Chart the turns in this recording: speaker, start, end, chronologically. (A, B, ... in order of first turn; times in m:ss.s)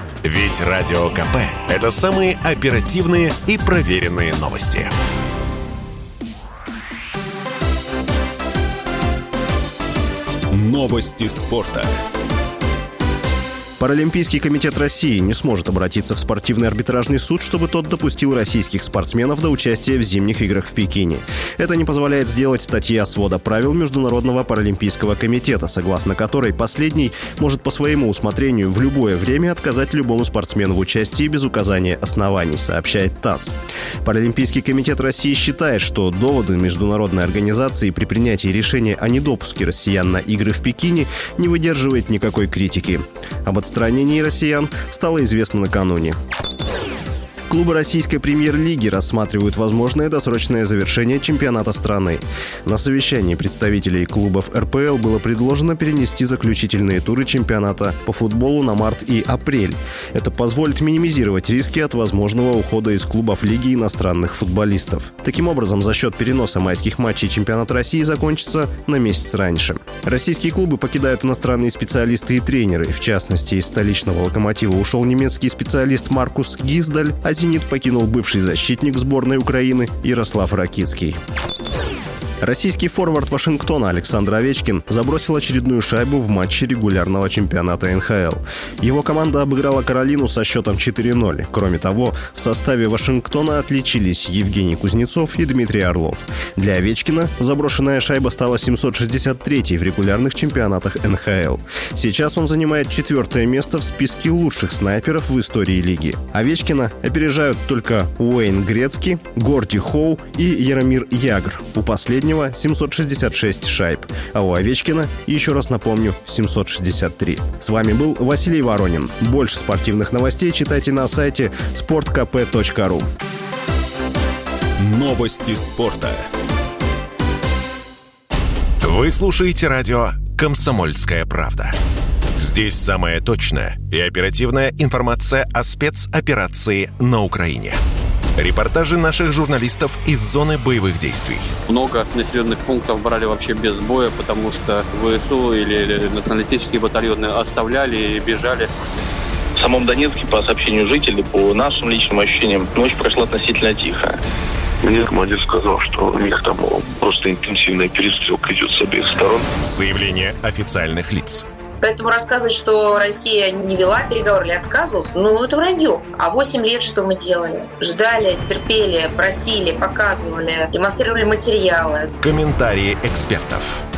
0:00.2-0:04.9 A
0:10.5-0:11.9 B
0:13.8-0:46.2 C
0:47.5-1:21.2 C
1:22.4-2:03.0 C
2:04.8-2:06.2 B
2:08.8-2:11.7 A
2:12.4-2:17.8 A
2:18.4-2:21.5 A
2:21.7-2:28.7 D
2:29.6-2:34.0 E
2:34.8-2:39.5 F
2:39.6-2:41.4 A
2:41.8-2:52.1 G
2:52.2-2:53.8 A